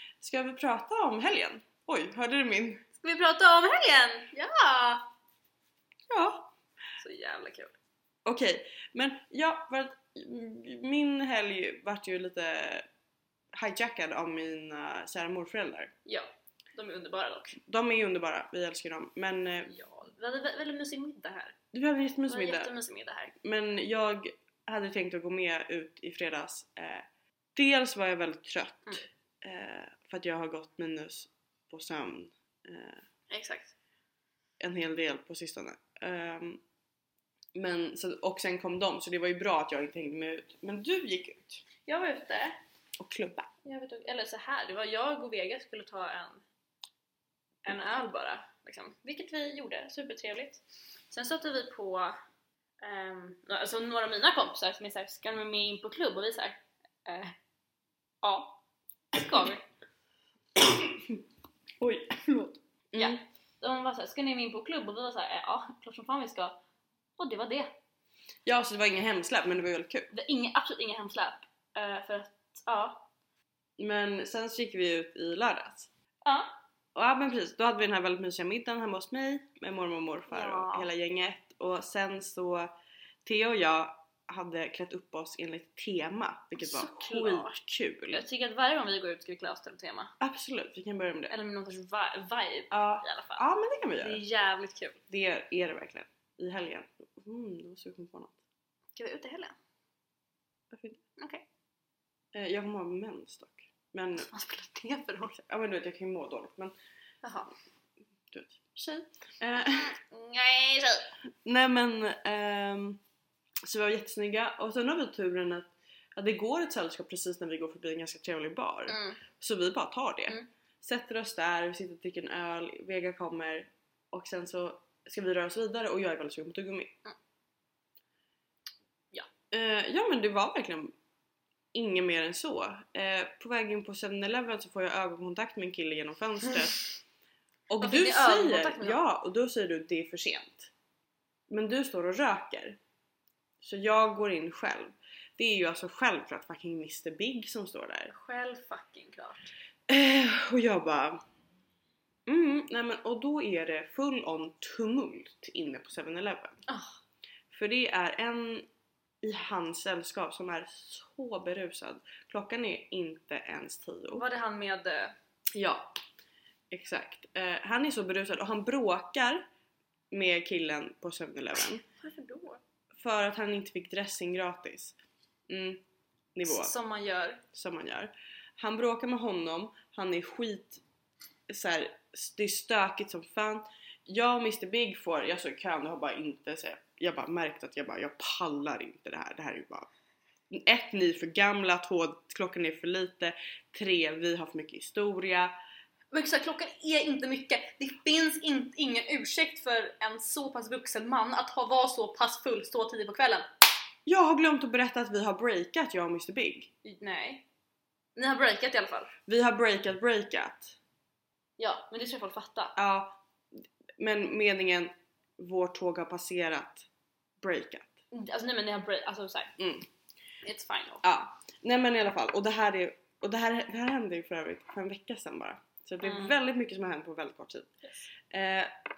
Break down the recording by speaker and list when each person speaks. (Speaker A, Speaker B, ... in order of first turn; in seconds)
Speaker A: 0.2-2.9, 6.1-6.5, 8.2-12.9, 13.5-15.9, 17.6-19.8, 21.7-22.8, 23.4-33.0, 34.6-36.6, 37.5-41.6, 43.0-43.5, 60.6-61.2, 61.8-63.2, 68.5-70.1, 73.8-75.9, 77.0-82.7, 83.2-88.2, 90.2-91.4, 92.7-94.2, 95.1-98.4, 100.7-101.0, 102.3-104.3, 105.4-106.7, 108.3-108.8, 109.4-110.0, 111.5-113.0, 113.6-127.0, 129.5-130.9, 131.7-136.9, 137.7-140.7, 141.5-142.8, 143.6-148.1, 149.9-151.2, 152.3-156.6, 157.5-158.7, 159.2-164.3, 165.6-166.0, 166.7-169.5, 170.1-171.8, 173.0-175.0, 175.5-175.8, 176.3-176.7, 177.5-180.8, 181.5-189.9, 190.5-195.5, 204.1-206.7, 209.3-210.8, 212.8-216.9, 217.4-218.0, 219.6-219.9, 221.0-227.7, 228.3-228.7
Speaker B: 3.0-5.1, 7.0-7.8, 16.1-17.6, 19.7-21.6, 22.3-23.3, 33.3-33.7, 41.9-42.6, 43.6-46.4, 47.6-52.1, 52.8-57.4, 58.2-58.6, 59.1-59.6, 63.0-66.6, 67.2-67.7, 70.1-73.1, 76.2-76.5, 80.3-80.9, 86.6-87.6, 88.1-90.1, 91.3-93.4, 94.0-95.0, 99.0-99.6, 101.2-101.4, 104.2-105.4, 107.2-107.5, 108.8-109.0, 109.9-111.1, 118.9-119.2, 137.8-139.0, 148.1-149.5, 156.7-157.0, 164.1-165.1, 172.0-172.6, 176.5-177.4, 196.1-203.5, 206.8-207.4, 208.2-209.1, 211.6-212.8, 218.1-219.5, 220.4-221.0, 226.0-226.4